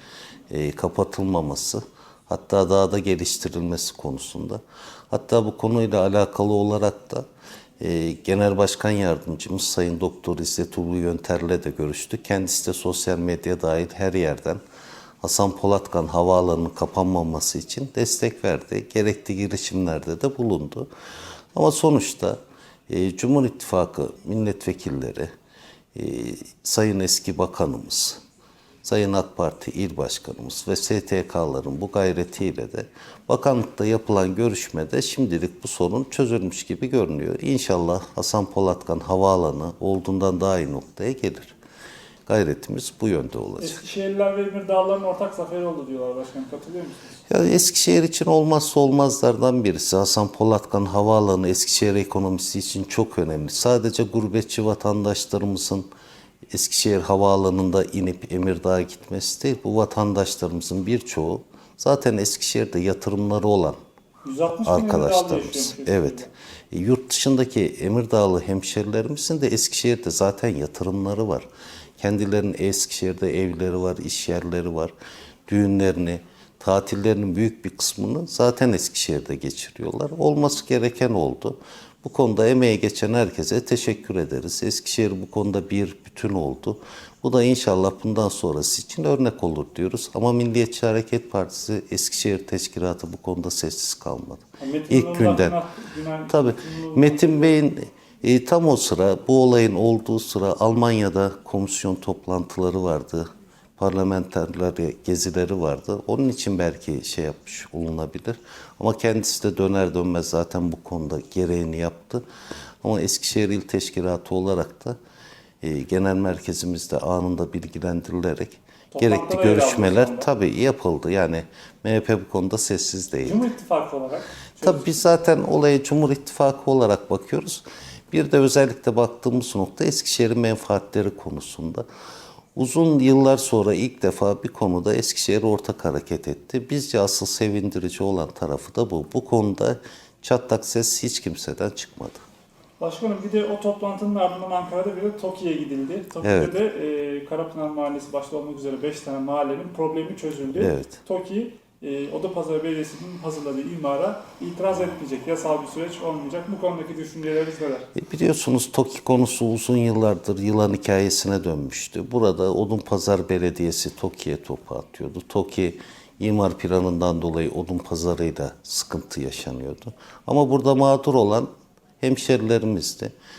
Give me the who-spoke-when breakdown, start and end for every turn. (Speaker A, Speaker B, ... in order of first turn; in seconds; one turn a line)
Speaker A: 0.5-7.2
Speaker A: 7.8-14.6
Speaker A: 15.2-20.9
Speaker A: 21.5-25.3
Speaker A: 25.9-28.2
Speaker A: 28.8-41.5
Speaker A: 42.3-43.8
Speaker B: 43.6-47.1
Speaker A: 47.3-55.9
Speaker A: 56.5-63.8
Speaker B: 64.2-66.3
Speaker A: 64.6-71.5
Speaker A: 72.0-74.9
Speaker A: 75.5-95.6
Speaker B: 94.6-97.5
Speaker A: 96.3-112.2
Speaker A: 112.8-115.0
Speaker A: 115.6-123.5
Speaker B: 118.9-120.3
Speaker B: 123.2-124.9
Speaker A: 124.6-131.8
Speaker A: 132.6-142.2
Speaker B: 142.8-157.9
Speaker A: 146.2-146.6
Speaker A: 150.5-151.0
Speaker A: 157.9-171.5
Speaker A: 172.0-173.1